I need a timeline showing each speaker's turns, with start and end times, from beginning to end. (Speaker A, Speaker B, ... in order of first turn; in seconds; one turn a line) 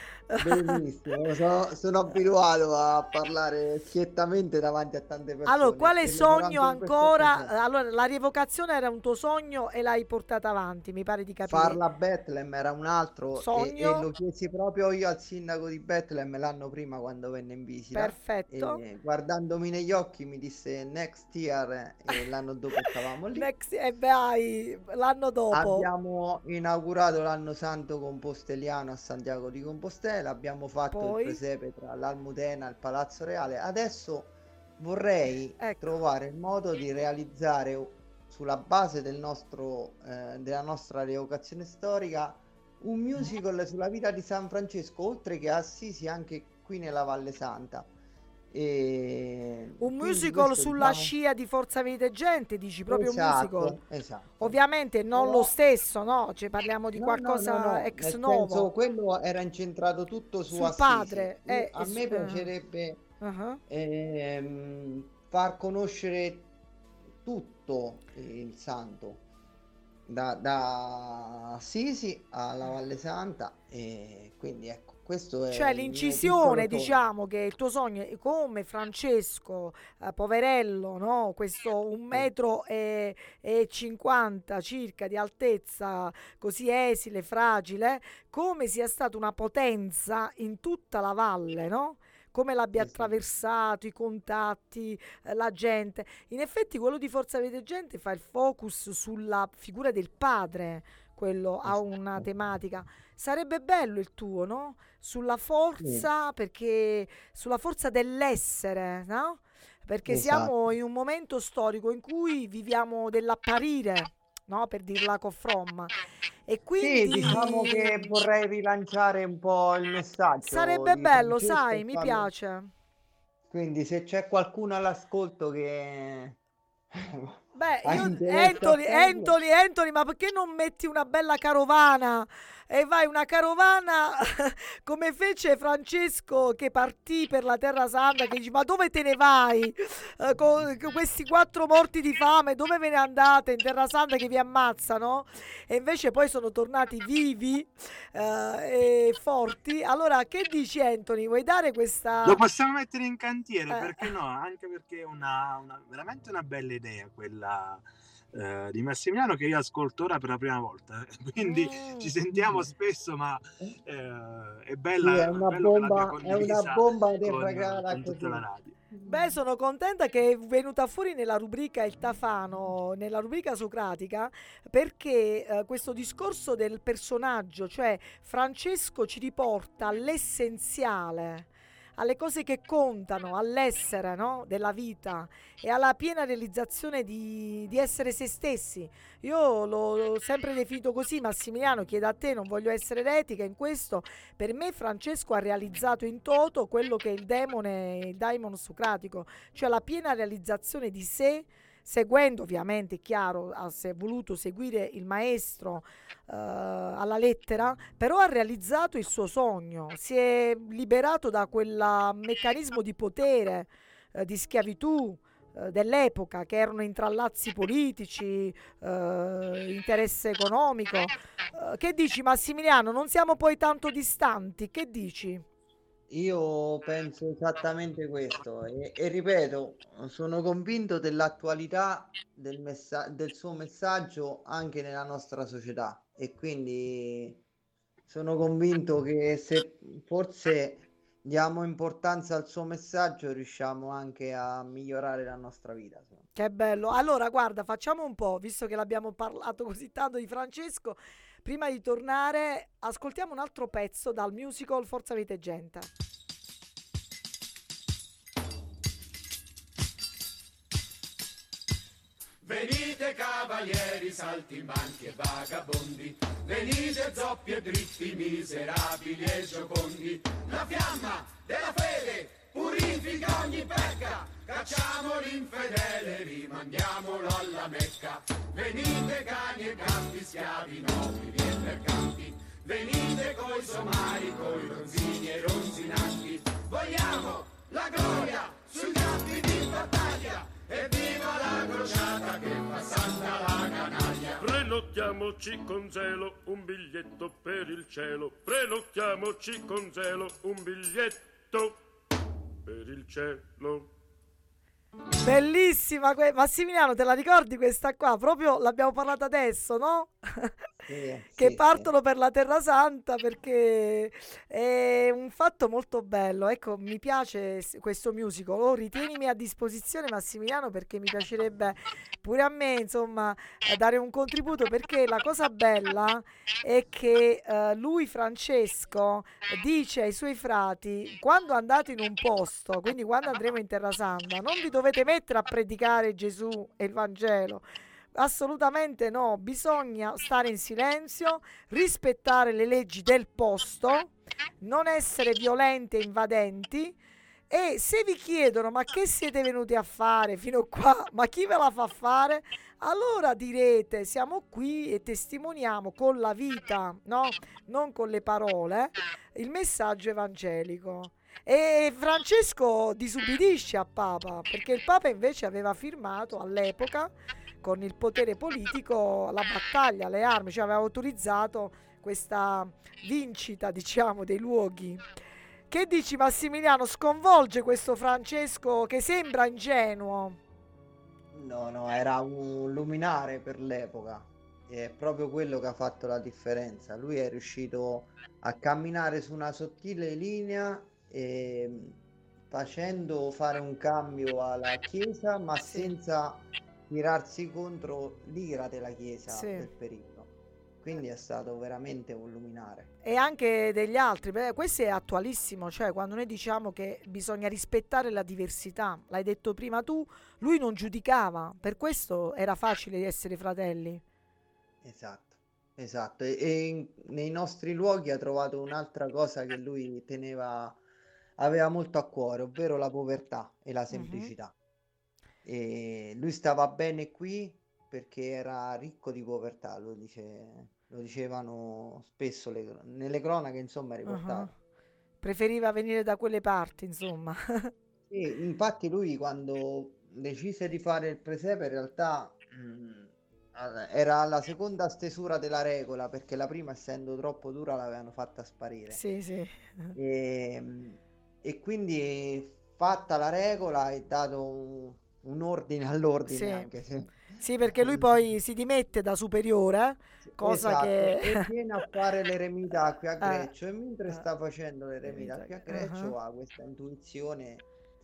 Speaker A: 0.3-0.8
Speaker B: 0.4-7.5
Speaker A: 5.5-11.8
Speaker B: 11.4-23.5
Speaker A: 13.3-14.1
Speaker A: 17.9-18.8
Speaker A: 22.8-25.9
Speaker B: 25.5-47.9
Speaker A: 30.9-31.4
Speaker A: 35.6-35.9
Speaker B: 48.5-51.1
Speaker A: 49.8-53.8
Speaker B: 52.9-54.6
Speaker A: 54.4-58.7
Speaker B: 55.1-55.5
Speaker B: 57.0-63.0
Speaker A: 60.5-62.5
Speaker A: 63.2-63.6
Speaker B: 63.7-66.5
Speaker B: 67.2-69.2
Speaker B: 70.1-77.0
Speaker A: 75.5-115.9
Speaker B: 92.8-93.2
Speaker B: 101.6-102.3
Speaker B: 105.8-106.1
Speaker B: 110.1-110.5
Speaker A: 116.5-118.0
Speaker B: 116.8-122.3
Speaker A: 120.4-122.7
Speaker B: 123.5-126.4
Speaker B: 126.9-129.3
Speaker A: 127.5-152.4
Speaker C: 152.2-168.8
Speaker A: 153.7-154.1
Speaker A: 161.4-162.1
Speaker B: 165.0-169.4
Speaker A: 169.1-225.4
Speaker B: 226.1-237.4
Speaker B: 238.1-246.2
Speaker A: 246.3-255.9
Speaker D: 262.4-294.4
Speaker E: 294.4-301.8
Speaker E: 302.6-303.9
Speaker A: 305.2-310.5
Speaker B: 310.9-311.9
Speaker A: 311.4-346.9
Speaker A: 347.5-375.0
Speaker A: 375.7-380.4
Speaker B: 381.3-392.0
Speaker B: 392.5-400.3
Speaker A: 395.6-395.9
Speaker A: 399.3-399.7
Speaker B: 400.8-402.9
Speaker A: 403.0-414.0
Speaker B: 414.8-420.8
Speaker B: 421.4-424.5
Speaker A: 423.9-424.3
Speaker B: 425.4-434.5
Speaker A: 434.1-434.5
Speaker A: 435.2-437.7
Speaker B: 438.1-449.0
Speaker A: 448.9-449.9
Speaker B: 449.9-458.3
Speaker A: 456.3-456.7
Speaker A: 457.4-461.5
Speaker B: 460.2-467.6
Speaker A: 463.2-463.5
Speaker A: 465.0-466.1